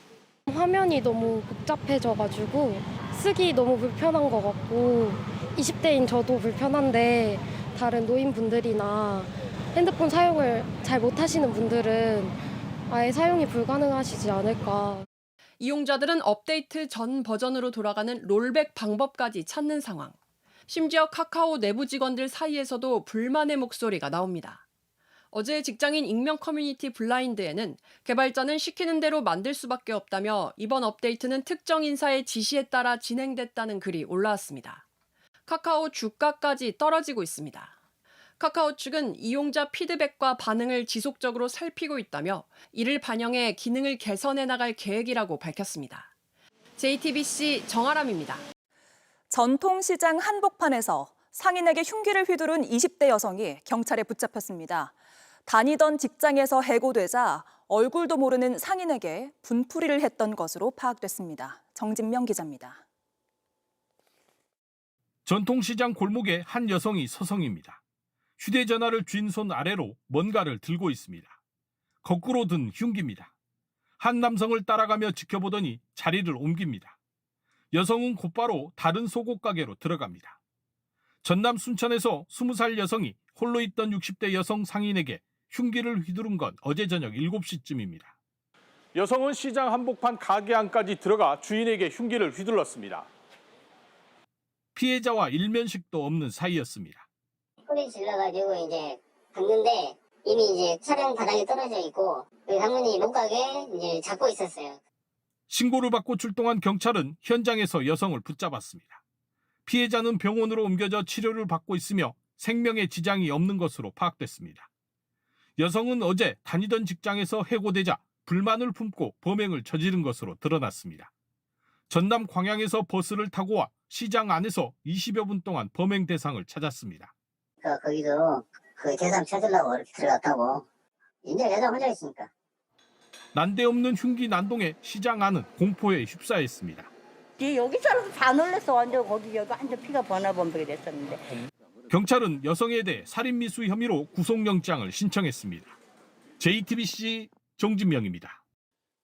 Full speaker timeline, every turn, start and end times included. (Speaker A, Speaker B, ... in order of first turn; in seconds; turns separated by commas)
Speaker A: 0.5-15.1, Speaker B: 15.6-20.1, Speaker B: 20.7-24.6, Speaker B: 25.3-34.8, Speaker B: 35.5-37.7, Speaker B: 38.4-46.1, Speaker B: 46.8-48.4, Speaker C: 49.3-54.9, Speaker C: 55.5-62.8, Speaker D: 65.2-67.8, Speaker D: 68.4-71.3, Speaker D: 72.0-73.3, Speaker D: 74.0-76.9, Speaker D: 77.7-80.4, Speaker D: 81.2-88.1, Speaker D: 88.9-93.1, Speaker D: 94.7-97.0, Speaker E: 97.7-104.8, Speaker D: 105.5-109.0, Speaker D: 109.7-114.7, Speaker D: 115.6-121.1, Speaker D: 121.9-127.1, Speaker E: 127.6-130.6, Speaker E: 131.2-132.3, Speaker D: 133.3-136.9, Speaker F: 137.4-141.3, Speaker D: 141.9-145.8, Speaker D: 146.4-148.4